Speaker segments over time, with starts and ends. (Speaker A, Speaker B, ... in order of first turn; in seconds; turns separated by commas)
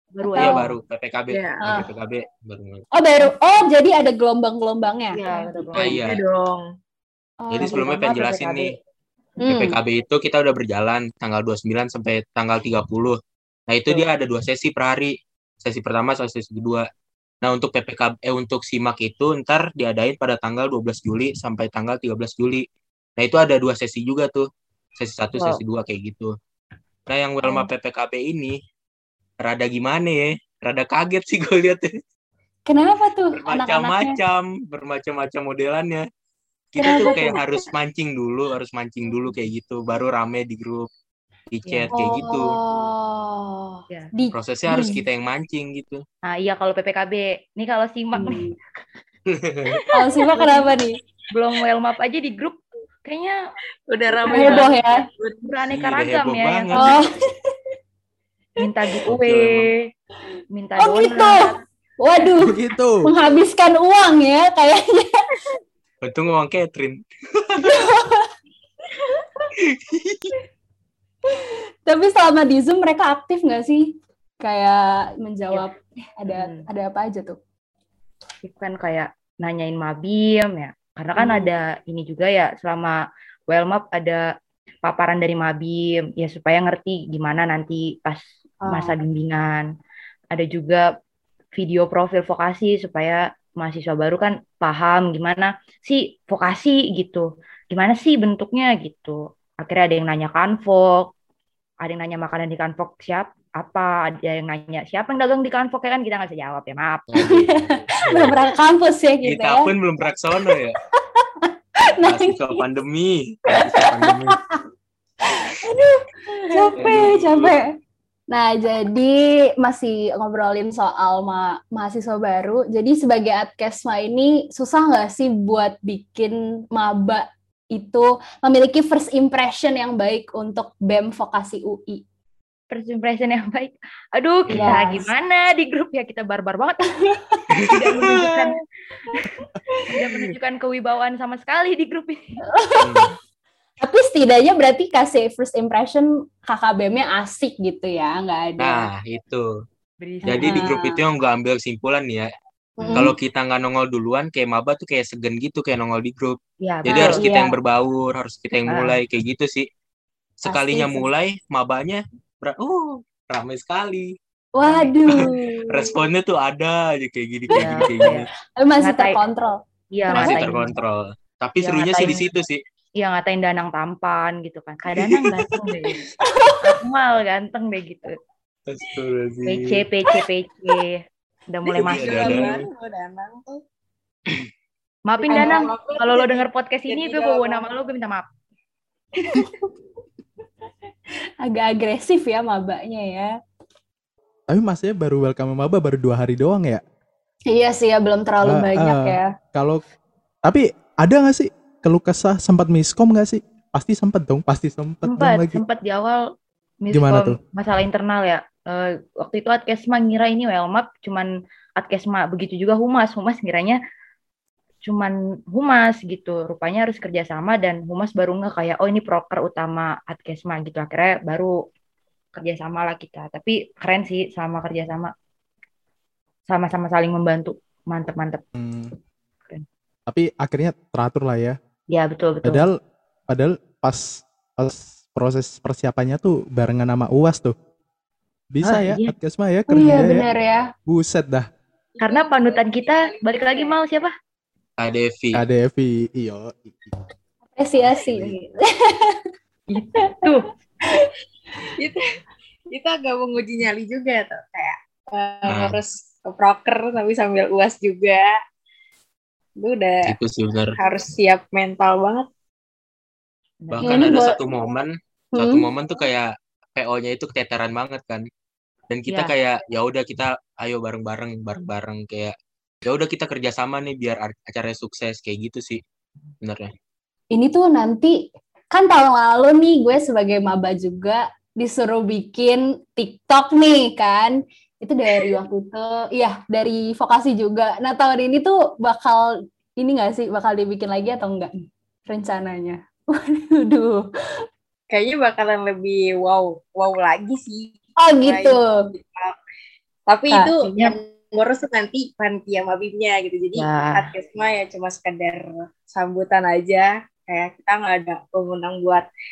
Speaker A: 0.1-0.8, Speaker B: 0.2-0.7, Speaker C: 0.4-2.9, Speaker D: 1.3-1.6, Speaker B: 1.6-1.9, Speaker B: 2.9-5.6, Speaker A: 5.1-6.0, Speaker D: 5.7-6.6, Speaker C: 5.8-6.2, Speaker B: 7.4-7.8, Speaker C: 7.5-8.7, Speaker A: 7.6-8.8, Speaker B: 9.4-9.8, Speaker C: 9.4-13.2, Speaker C: 13.7-16.9, Speaker C: 17.4-22.6, Speaker C: 23.2-26.4, Speaker A: 25.4-25.6, Speaker C: 27.1-28.6, Speaker C: 29.4-31.9, Speaker B: 32.7-34.2, Speaker C: 33.4-36.0, Speaker C: 36.7-40.9, Speaker B: 36.8-37.4, Speaker D: 36.9-37.2, Speaker C: 41.5-42.5, Speaker B: 41.9-45.0, Speaker C: 44.3-46.0, Speaker A: 46.3-48.5, Speaker B: 48.2-48.5, Speaker C: 49.3-49.9, Speaker B: 49.9-51.0, Speaker A: 51.3-53.4, Speaker D: 53.9-55.4, Speaker A: 54.1-54.7, Speaker B: 54.2-55.0, Speaker A: 55.4-57.0, Speaker C: 55.7-57.0, Speaker B: 56.7-57.1, Speaker A: 58.6-59.9, Speaker C: 59.1-59.7, Speaker A: 60.5-61.6, Speaker B: 60.8-65.5, Speaker E: 62.4-63.1, Speaker C: 66.0-67.8, Speaker B: 67.6-68.3, Speaker C: 69.6-70.3, Speaker B: 71.9-77.4, Speaker A: 76.3-76.7, Speaker A: 78.4-83.0, Speaker B: 81.2-81.5, Speaker A: 83.5-84.2, Speaker A: 84.8-89.7, Speaker B: 88.6-89.0, Speaker A: 90.3-90.9, Speaker A: 91.5-101.1, Speaker A: 101.8-107.1, Speaker C: 107.1-108.4, Speaker B: 107.2-109.7, Speaker C: 109.2-110.8, Speaker B: 111.2-112.6, Speaker C: 112.0-114.4, Speaker B: 113.5-114.6, Speaker B: 115.3-117.7, Speaker D: 116.6-117.0, Speaker C: 116.8-117.6, Speaker B: 118.3-132.0, Speaker A: 132.7-137.0, Speaker B: 134.5-135.1, Speaker B: 137.1-137.4, Speaker C: 137.6-138.3, Speaker A: 137.6-138.6, Speaker B: 139.7-140.0, Speaker A: 139.9-142.2, Speaker B: 142.5-143.1, Speaker C: 142.8-143.1, Speaker B: 143.8-148.9, Speaker C: 148.6-149.5, Speaker A: 150.0-151.0, Speaker B: 150.3-151.0, Speaker C: 150.3-152.3, Speaker B: 152.8-153.1, Speaker A: 152.8-153.1, Speaker C: 152.9-159.7, Speaker A: 156.6-157.5, Speaker B: 156.9-157.5, Speaker A: 158.7-159.0, Speaker C: 160.4-164.1, Speaker B: 160.5-161.1, Speaker B: 164.6-165.3, Speaker A: 164.6-165.0, Speaker C: 165.1-168.3, Speaker D: 165.3-165.9, Speaker A: 167.5-168.3, Speaker B: 168.6-169.6, Speaker A: 168.8-169.2, Speaker A: 169.9-170.8, Speaker B: 170.1-170.7, Speaker C: 170.1-172.6, Speaker A: 171.6-172.2, Speaker A: 173.0-176.0, Speaker C: 175.0-175.2, Speaker B: 176.3-176.6, Speaker A: 176.6-178.2, Speaker C: 178.7-179.8, Speaker A: 179.5-182.5, Speaker D: 181.8-183.6, Speaker C: 181.8-182.6, Speaker A: 185.1-188.2, Speaker D: 185.2-187.7, Speaker B: 189.3-189.5, Speaker B: 191.4-193.3, Speaker E: 194.5-196.8, Speaker B: 197.5-199.3, Speaker E: 198.4-199.8, Speaker E: 200.4-205.6, Speaker A: 205.1-206.2, Speaker A: 206.8-213.8, Speaker E: 206.9-207.4, Speaker A: 214.8-221.6, Speaker A: 222.3-225.1, Speaker A: 226.5-228.4, Speaker E: 228.6-228.9, Speaker E: 230.1-231.6, Speaker A: 231.9-232.7, Speaker E: 232.4-232.8, Speaker E: 233.3-237.6, Speaker E: 238.5-240.3, Speaker A: 238.7-239.1, Speaker B: 239.7-240.7, Speaker E: 240.9-241.5, Speaker D: 241.9-243.8, Speaker A: 242.0-244.1, Speaker C: 244.8-245.4, Speaker E: 245.3-246.9, Speaker B: 247.6-249.2, Speaker E: 247.8-248.3, Speaker A: 249.7-250.5, Speaker B: 250.0-250.3, Speaker D: 252.7-258.3, Speaker C: 255.5-255.8, Speaker D: 259.6-260.2, Speaker C: 260.1-260.8, Speaker D: 260.8-262.3, Speaker A: 263.6-264.1, Speaker C: 263.7-268.3, Speaker B: 263.8-264.4, Speaker B: 265.3-265.7, Speaker C: 268.9-275.8, Speaker C: 276.4-276.7, Speaker B: 277.3-294.1, Speaker D: 294.9-299.4, Speaker B: 298.0-298.7, Speaker D: 300.1-309.1, Speaker A: 303.6-304.1